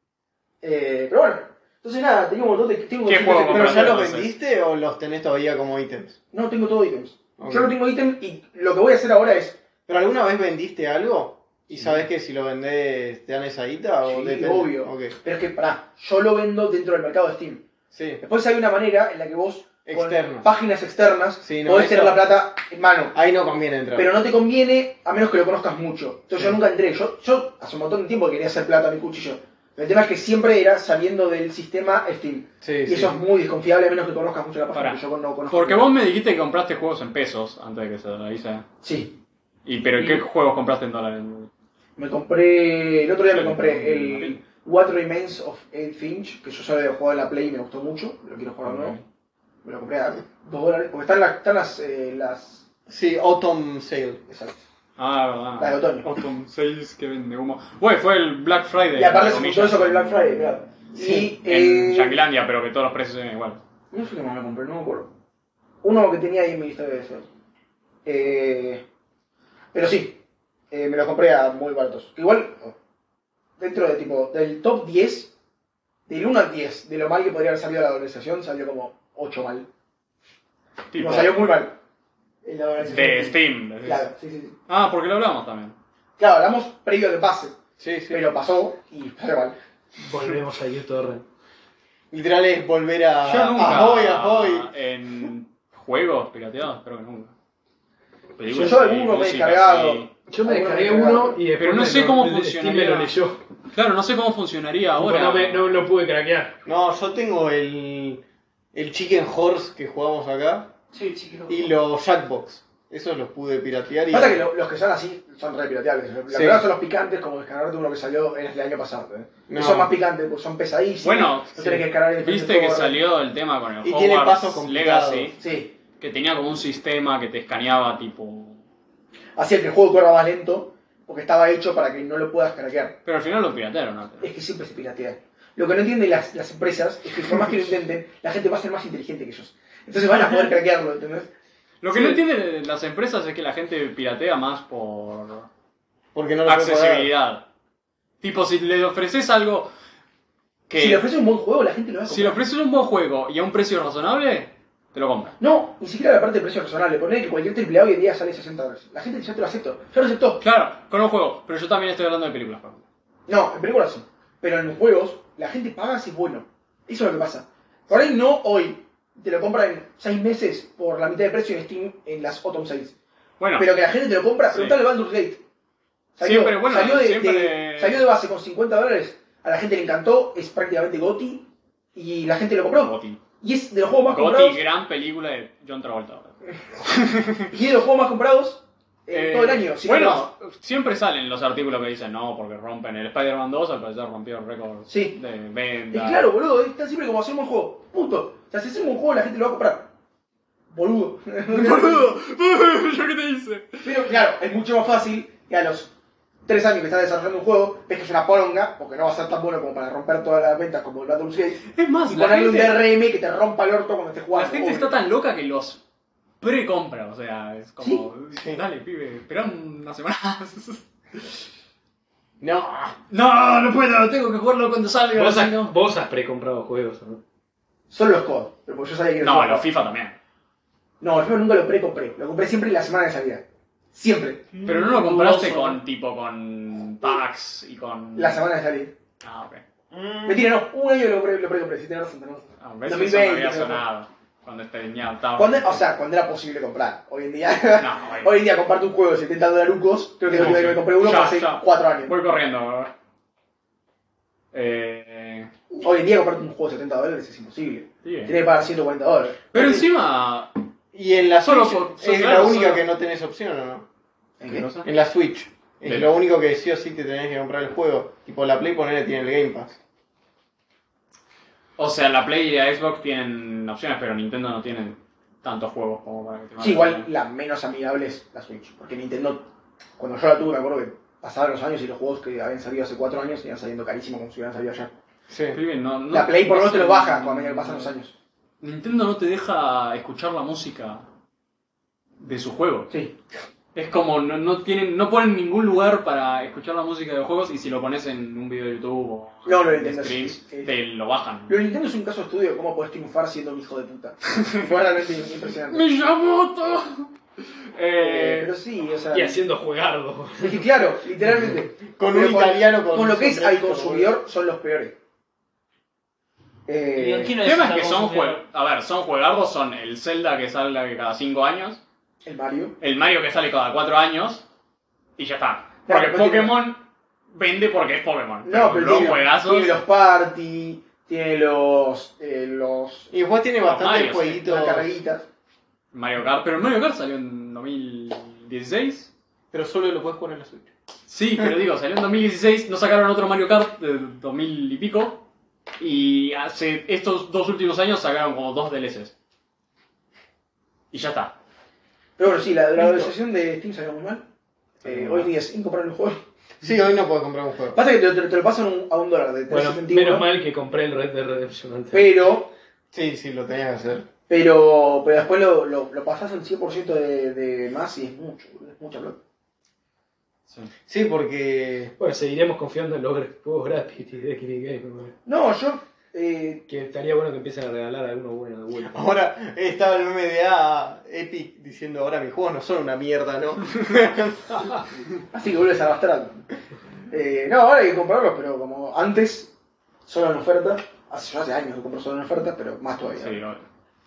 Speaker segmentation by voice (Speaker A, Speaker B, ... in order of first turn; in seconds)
Speaker A: 0.6-4.0, 6.3-9.6, 14.0-17.6, 18.2-23.1, 23.9-35.9, 38.8-39.2, 42.0-49.0, 49.6-52.6, 54.3-54.6, 55.6-56.0, 59.0-62.2, 63.9-65.1, 65.8-67.3, 68.0-68.8, 69.7-70.2, 70.7-72.8, 73.6-75.3, 76.1-79.7, 81.0-81.8, 82.4-84.6, 86.2-87.6, 88.1-89.6, 93.6-93.8, 98.5-101.4, 110.9-111.5, 114.1-123.0, 125.4-125.7, 129.4-133.0, 134.2-141.3, 141.9-142.2, 150.8-152.4, 155.4-160.4, 163.3-172.9, 173.6-175.4, 176.2-184.6, 187.5-190.3, 194.9-195.2, 195.9-199.9, 200.7-202.2, 203.8-205.9, 206.5-214.9, 227.9-229.6, 231.0-234.5, 238.2-238.9, 240.2-243.8, 245.4-252.1, 255.8-259.5, 264.4-264.7, 276.6-279.4, 280.0-285.0, 286.1-288.1, 299.5-300.7, 301.5-305.8, 307.9-309.4, 310.4-314.9, 316.7-317.4, 322.2-322.8, 325.9-326.6, 328.4-333.1, 334.3-335.3, 352.2-354.2, 354.8-356.2, 357.7-360.3, 361.9-362.5, 364.3-369.2, 375.3-376.6, 385.3-386.5, 387.1-389.5, 390.1-393.4
Speaker B: 3.0-4.3, 34.7-38.6, 39.7-41.5, 43.3-44.4, 48.6-49.0, 55.0-60.6, 61.1-63.6, 80.9-81.5, 82.8-84.1, 84.7-85.8, 93.2-97.3, 98.4-100.1, 101.6-103.2, 103.7-105.9, 121.0-125.4, 126.0-128.6, 133.1-134.3, 141.8-145.5, 146.5-147.4, 148.2-149.7, 150.7-151.1, 152.1-155.3, 160.4-162.8, 173.4-173.7, 174.5-174.8, 176.2-178.1, 182.8-183.2, 184.1-187.5, 189.1-196.3, 201.5-204.1, 211.7-212.9, 214.3-215.8, 216.4-221.3, 223.1-225.7, 229.2-230.2, 234.7-238.4, 239.2-239.6, 242.6-245.8, 247.8-248.4, 250.2-252.9, 254.5-255.5, 258.0-258.4, 259.5-260.5, 261.4-262.9, 264.4-264.9, 265.9-266.1, 271.8-277.1, 285.5-287.9, 288.6-291.1, 292.2-292.9, 293.8-301.6, 305.7-307.1, 307.7-308.5, 317.4-321.8, 322.8-324.4, 325.2-329.8, 333.6-334.4, 335.9-339.1, 341.1-345.2, 345.8-349.1, 350.9-351.3, 354.8-355.3, 393.2-393.7
Speaker C: 3.5-6.2, 7.4-7.8, 9.9-15.2, 17.9-18.2, 19.9-20.5, 21.4-22.3, 23.1-24.1, 32.6-33.2, 52.9-54.2, 61.0-61.4, 87.8-88.3, 92.1-94.7, 106.6-108.2, 108.7-110.7, 111.5-114.5, 116.3-116.7, 119.5-119.9, 123.8-125.3, 146.1-147.1, 218.3-218.6, 222.4-223.0, 259.6-259.9, 260.9-263.9, 264.8-269.8, 285.3-285.6, 311.4-314.1, 328.9-329.1, 333.1-335.0, 339.5-340.7, 352.8-353.1, 356.6-357.8, 362.9-364.1, 370.9-371.9, 378.8-384.7
Speaker D: 90.0-91.3, 100.3-103.4, 105.0-106.5, 225.1-227.2, 309.1-310.8, 359.5-362.2, 372.0-375.1, 376.7-379.0
Speaker E: 234.5-235.6, 239.9-240.5, 316.9-318.4